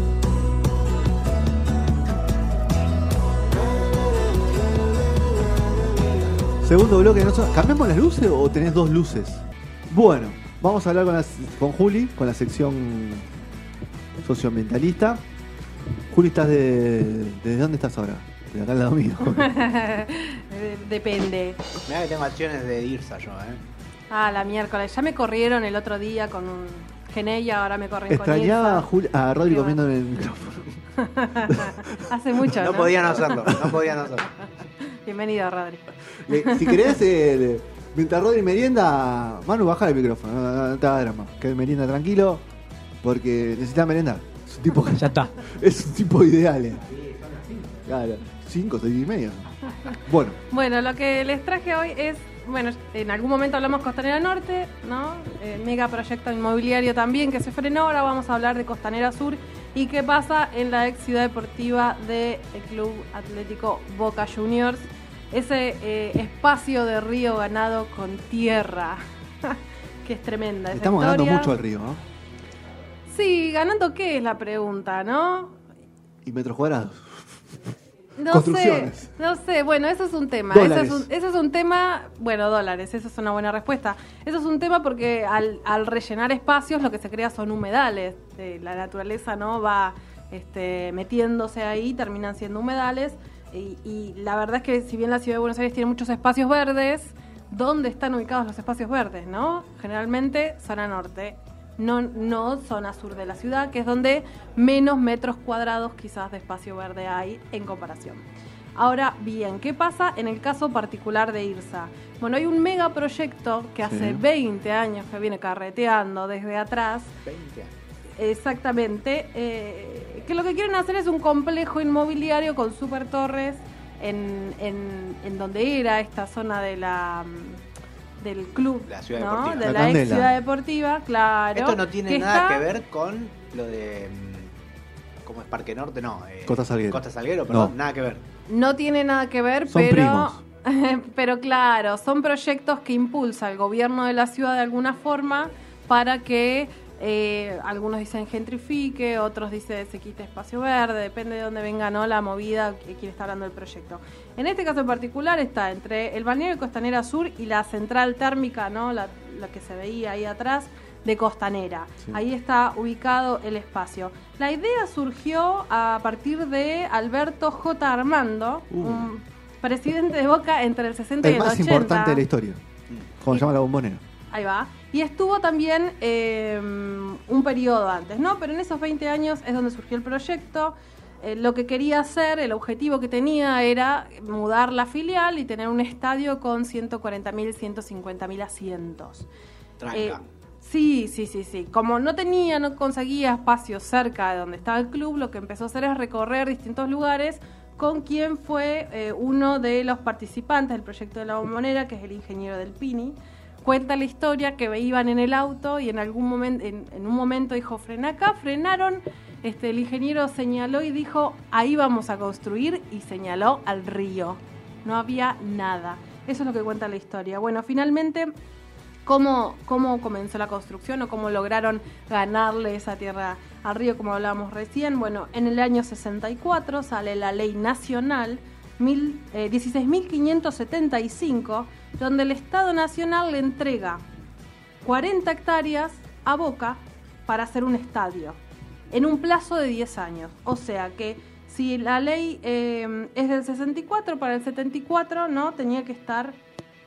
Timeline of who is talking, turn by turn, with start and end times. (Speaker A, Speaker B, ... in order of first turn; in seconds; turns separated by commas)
Speaker A: 6.6-13.3, Speaker A: 14.2-15.2, Speaker A: 16.1-19.5, Speaker B: 19.3-21.6, Speaker C: 21.9-23.6, Speaker B: 24.1-28.9, Speaker A: 28.1-30.8, Speaker B: 29.5-29.8, Speaker B: 31.0-33.2, Speaker A: 31.5-32.1, Speaker C: 32.6-34.3, Speaker A: 33.4-33.8, Speaker B: 34.8-36.9, Speaker A: 36.2-42.4, Speaker A: 43.0-46.9, Speaker C: 46.9-47.8, Speaker A: 47.9-50.4, Speaker B: 50.5-71.5, Speaker A: 70.7-72.0, Speaker B: 73.1-75.6, Speaker A: 76.2-77.6, Speaker B: 78.2-108.2, Speaker A: 78.3-79.1, Speaker A: 80.5-81.1, Speaker B: 108.8-117.1, Speaker A: 113.8-114.2, Speaker C: 117.2-117.7, Speaker B: 118.2-127.6, Speaker B: 128.2-132.7, Speaker C: 128.9-129.9, Speaker A: 129.6-130.3, Speaker C: 131.6-134.5, Speaker C: 135.2-138.2, Speaker A: 136.5-137.7, Speaker B: 138.5-172.2, Speaker A: 139.7-140.4, Speaker A: 168.7-169.1, Speaker A: 171.2-172.6, Speaker A: 173.2-174.0, Speaker B: 174.3-189.3, Speaker C: 189.8-190.2, Speaker B: 189.9-218.3, Speaker B: 219.1-234.0, Speaker B: 234.8-238.4, Speaker B: 238.9-246.4